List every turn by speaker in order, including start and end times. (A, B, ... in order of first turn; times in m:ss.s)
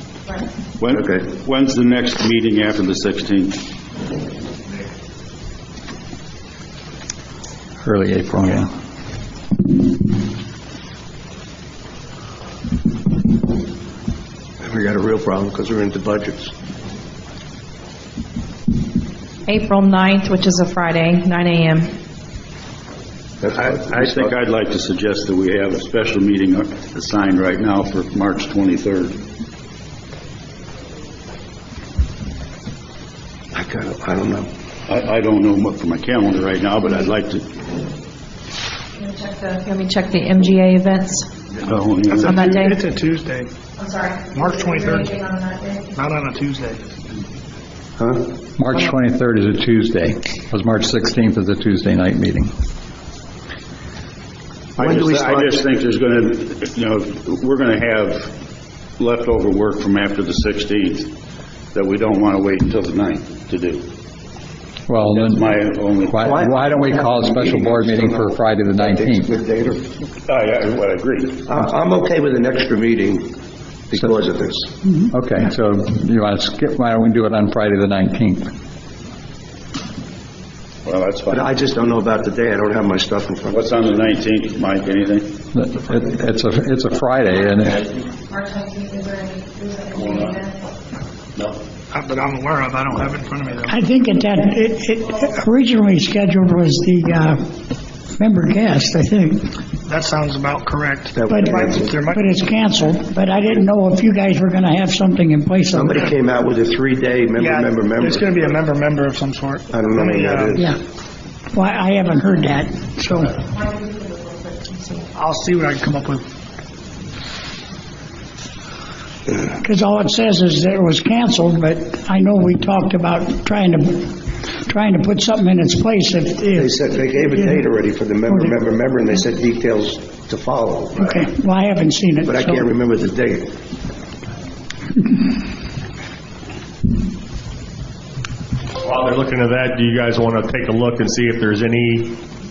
0:00.8-0:03.6 A
0:00.9-0:01.2 B
0:04.6-0:04.9 C
0:07.8-0:08.7 D
0:14.6-0:16.5 B
0:19.4-0:21.9 E
0:23.4-0:24.3 B
0:23.4-0:29.2 A
0:33.5-0:34.5 B
0:34.9-0:37.5 A
0:39.0-0:41.3 E
0:41.6-0:42.4 A
0:42.1-0:43.5 F
0:42.2-0:42.8 E
0:43.8-0:45.9 E
0:44.3-0:45.1 F
0:45.9-0:47.0 F
0:48.0-0:48.3 B
0:48.6-0:52.5 D
0:54.8-0:58.3 A
0:54.8-0:55.6 B
0:59.0-1:01.1 A
1:01.7-1:03.8 A
1:04.9-1:05.5 D
1:05.0-1:06.5 A
1:06.1-1:09.3 D
1:06.2-1:09.8 B
1:10.3-1:11.5 A
1:11.4-1:13.3 B
1:13.9-1:14.7 B
1:15.1-1:18.5 D
1:20.8-1:21.6 A
1:21.3-1:23.9 B
1:23.5-1:25.3 A
1:25.5-1:27.8 D
1:28.3-1:30.6 E
1:30.0-1:30.4 A
1:31.9-1:33.8 F
1:33.7-1:37.4 G
1:38.1-1:39.6 G
1:39.8-1:42.8 F
1:41.1-1:42.0 B
1:41.2-1:46.0 G
1:45.7-1:48.3 B
1:47.4-1:50.6 F
1:49.7-1:50.7 B
1:51.5-1:53.3 G
1:53.3-1:55.1 E
1:55.1-1:56.2 F
1:59.5-2:07.6 G
2:06.6-2:11.2 B
2:08.3-2:08.5 G
2:10.9-2:12.7 G
2:12.2-2:13.5 B
2:18.8-2:22.2 C